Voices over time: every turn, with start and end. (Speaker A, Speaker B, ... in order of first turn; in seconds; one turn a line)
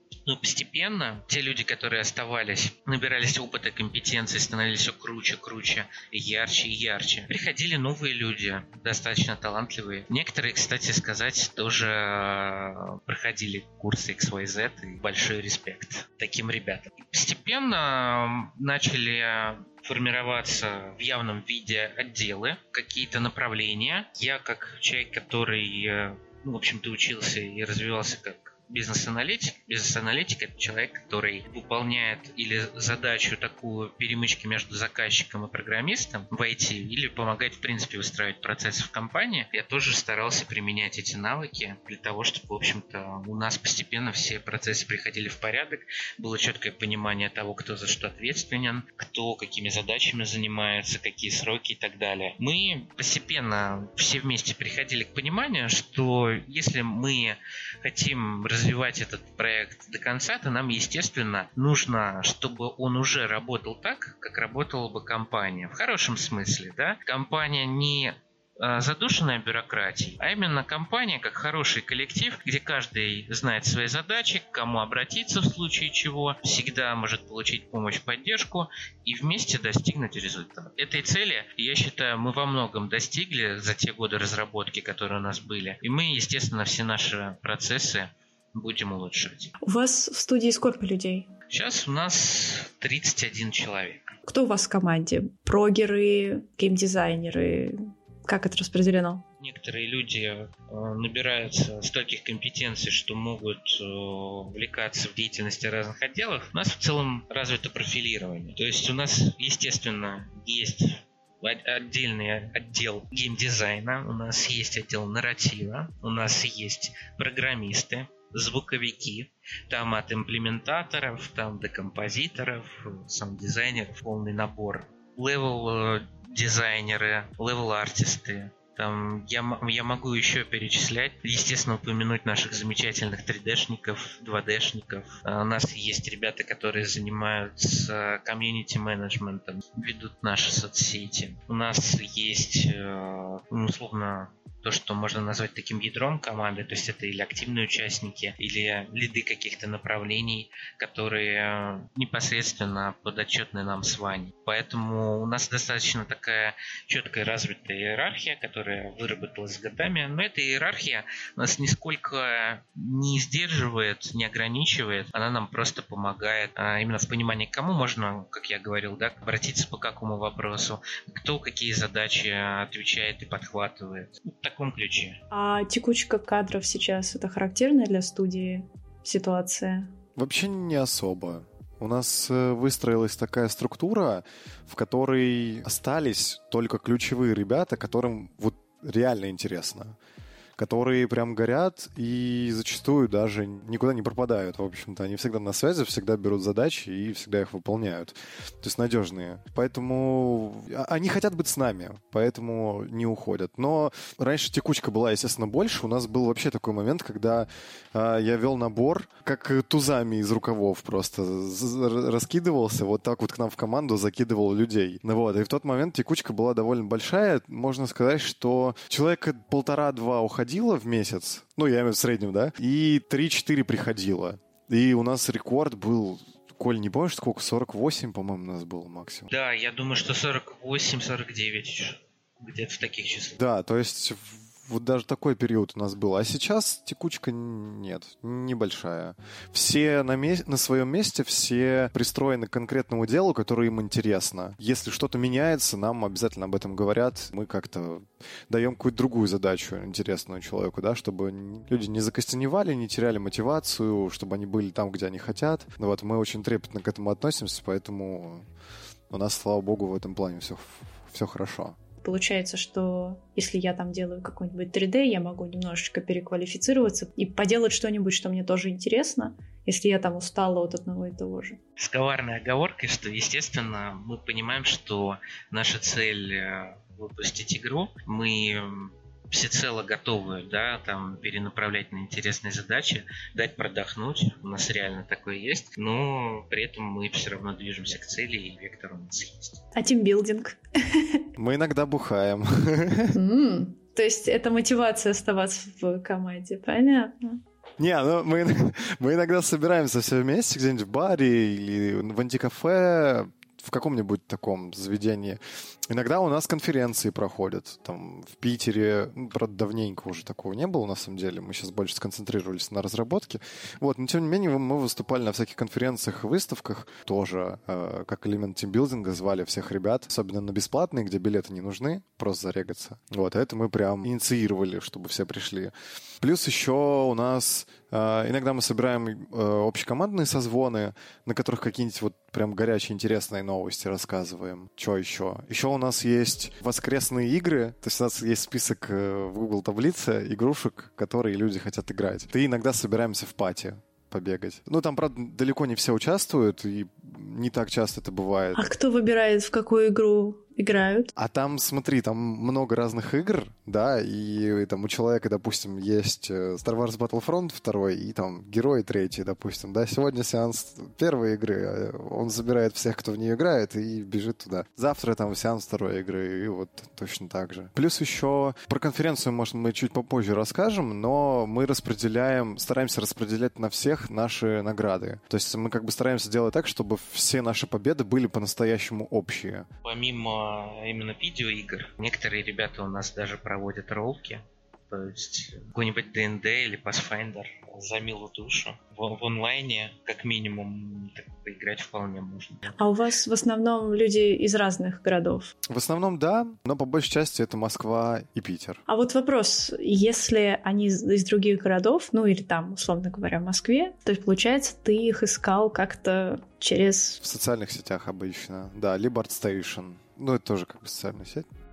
Speaker A: 0.2-89.5
Speaker B: 89.6-91.3
Speaker A: 91.5-94.1
Speaker B: 94.3-99.2
Speaker A: 99.4-175.2
Speaker B: 175.3-179.9
Speaker C: 180.2-190.0
Speaker C: 190.6-229.3
Speaker A: 229.3-233.4
Speaker C: 233.4-258.5
Speaker C: 259.1-261.8
Speaker B: 262.0-271.6
Speaker A: 271.8-289.6
Speaker B: 289.8-291.2
Speaker C: 291.4-293.1
Speaker B: 293.1-297.4
Speaker C: 297.8-348.7
Speaker B: 348.6-351.1
Speaker C: 351.1-379.7
Speaker A: 379.8-392.8
Speaker B: 392.8-395.5
Speaker C: 395.7-398.8
Speaker B: 398.9-407.2
Speaker C: 407.2-411.5